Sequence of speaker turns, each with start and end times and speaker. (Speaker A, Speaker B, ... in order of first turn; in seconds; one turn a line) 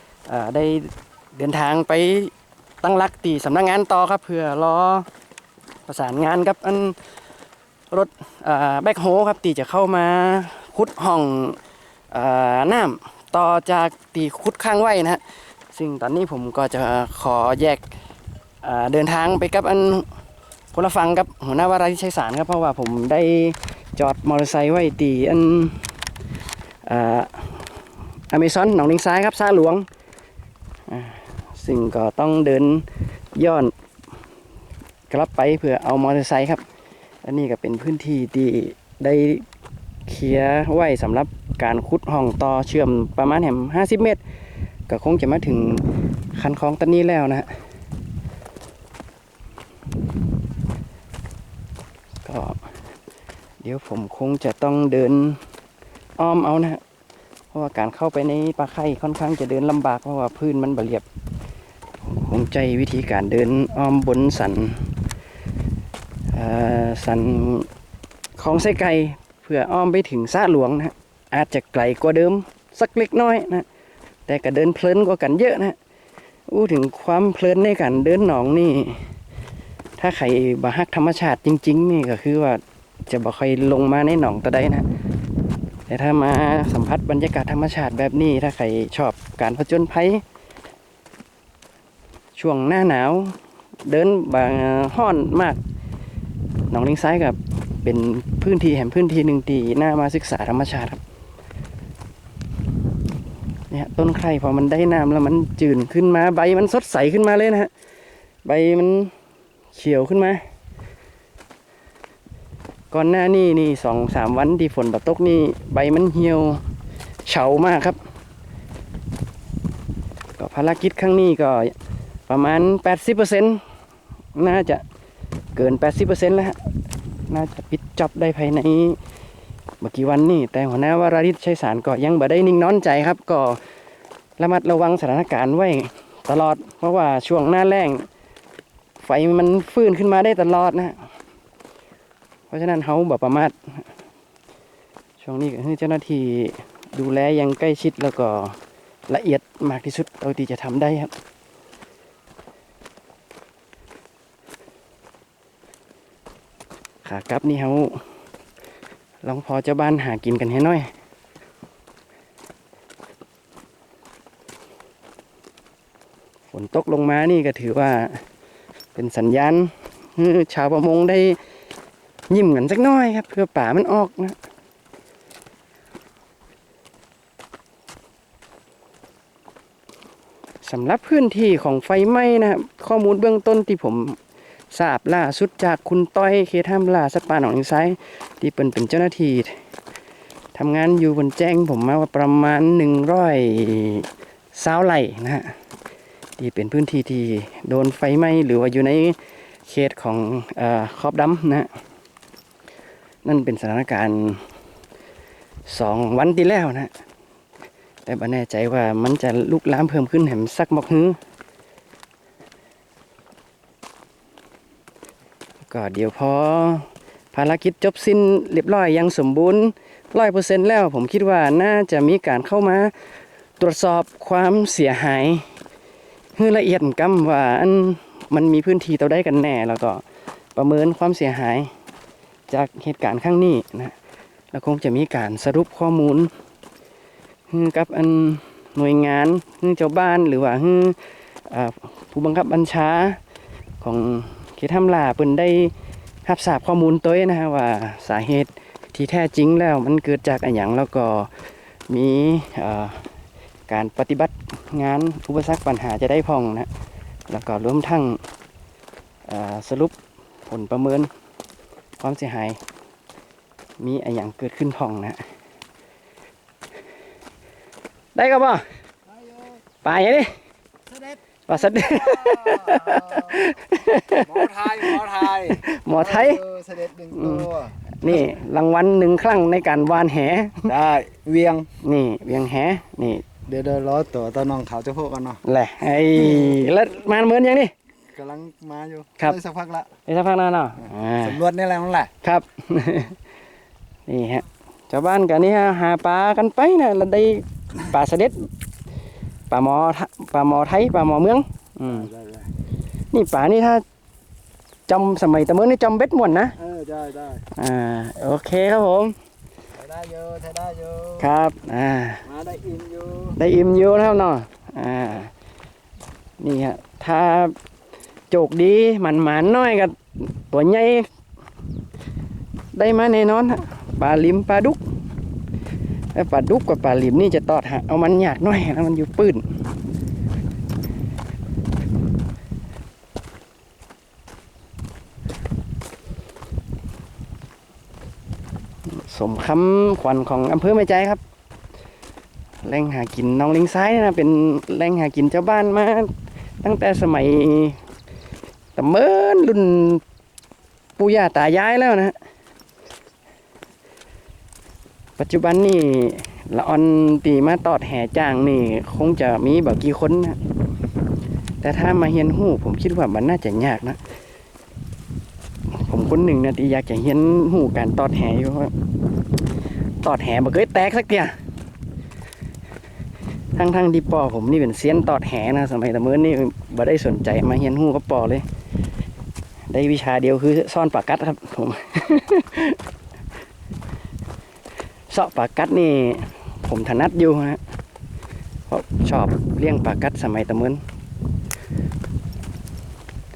Speaker A: 0.3-5.1
Speaker A: 5.9-7.0
Speaker A: 7.9-11.6
Speaker A: 12.1-15.2
Speaker A: 15.7-17.9
Speaker A: 18.6-20.1
Speaker A: 20.7-25.8
Speaker A: 26.9-27.7
Speaker A: 28.3-29.9
Speaker A: 30.9-33.7
Speaker A: 35.1-36.6
Speaker A: 37.2-39.5
Speaker A: 40.1-44.2
Speaker A: 44.9-47.5
Speaker A: 52.2-52.6
Speaker A: 53.6-55.4
Speaker A: 56.2-56.8
Speaker A: 57.5-61.0
Speaker A: 62.0-64.8
Speaker A: 66.3-67.7
Speaker A: 68.4-73.7
Speaker A: 74.3-75.8
Speaker A: 76.5-79.0
Speaker A: 80.0-84.9
Speaker A: 85.9-90.2
Speaker A: 92.4-93.3
Speaker A: 93.9-95.6
Speaker A: 96.7-101.0
Speaker A: 103.7-107.7
Speaker A: 108.5-109.1
Speaker A: 109.7-110.4
Speaker A: 112.9-116.6
Speaker A: 117.3-118.0
Speaker A: 120.4-121.8
Speaker A: 122.3-123.6
Speaker A: 124.3-124.8
Speaker A: 125.6-126.6
Speaker A: 127.3-129.0
Speaker A: 129.8-133.6
Speaker A: 134.4-138.1
Speaker A: 139.0-141.1
Speaker A: 142.5-143.6
Speaker A: 145.2-148.6
Speaker A: 149.1-151.1
Speaker A: 157.0-158.0
Speaker A: 159.2-160.9
Speaker A: 166.5-168.2
Speaker A: 168.9-171.4
Speaker A: 172.3-174.4
Speaker A: 180.6-184.2
Speaker A: 184.7-189.6
Speaker A: 190.6-195.5
Speaker A: 196.4-201.7
Speaker A: 203.2-204.4
Speaker A: 205.7-206.9
Speaker A: 208.1-211.2
Speaker A: 215.7-222.9
Speaker A: 223.6-225.5
Speaker A: 226.4-230.0
Speaker A: 230.6-231.7
Speaker A: 232.5-233.9
Speaker A: 234.5-236.3
Speaker A: 237.5-243.2
Speaker A: 243.8-245.7
Speaker A: 246.2-251.3
Speaker A: 251.9-253.1
Speaker A: 253.7-256.7
Speaker A: 257.3-258.2
Speaker A: 259.3-259.9
Speaker A: 260.5-261.1
Speaker A: 262.0-262.6
Speaker A: 263.8-265.2
Speaker A: 268.1-268.6
Speaker B: 269.1-269.6
Speaker A: 269.8-270.4
Speaker A: 271.5-276.4
Speaker B: 271.8-273.5
Speaker B: 274.2-277.8
Speaker A: 277.1-280.7
Speaker B: 280.7-281.7
Speaker A: 281.8-283.3
Speaker B: 283.5-285.4
Speaker A: 285.4-287.7
Speaker B: 288.1-289.9
Speaker A: 290.1-291.4
Speaker B: 291.2-292.1
Speaker A: 292.2-293.2
Speaker A: 294.1-298.5
Speaker A: 299.5-302.1
Speaker B: 301.9-302.5
Speaker A: 303.1-303.8
Speaker A: 304.9-306.6
Speaker B: 306.6-307.4
Speaker A: 307.6-309.1
Speaker B: 309.8-311.3
Speaker A: 311.2-312.2
Speaker B: 312.3-313.4
Speaker A: 313.4-315.3
Speaker A: 316.4-317.6
Speaker A: 318.3-321.1
Speaker A: 322.7-324.8
Speaker A: 326.1-329.4
Speaker A: 338.9-341.2
Speaker A: 342.6-346.1
Speaker A: 346.6-347.8
Speaker A: 348.8-350.0
Speaker A: 351.0-352.1
Speaker A: 355.2-360.4
Speaker A: 361.6-364.0
Speaker A: 365.7-368.7
Speaker A: 370.0-371.3
Speaker A: 373.6-378.4
Speaker A: 379.7-382.8
Speaker A: 385.1-387.6
Speaker A: 388.7-390.8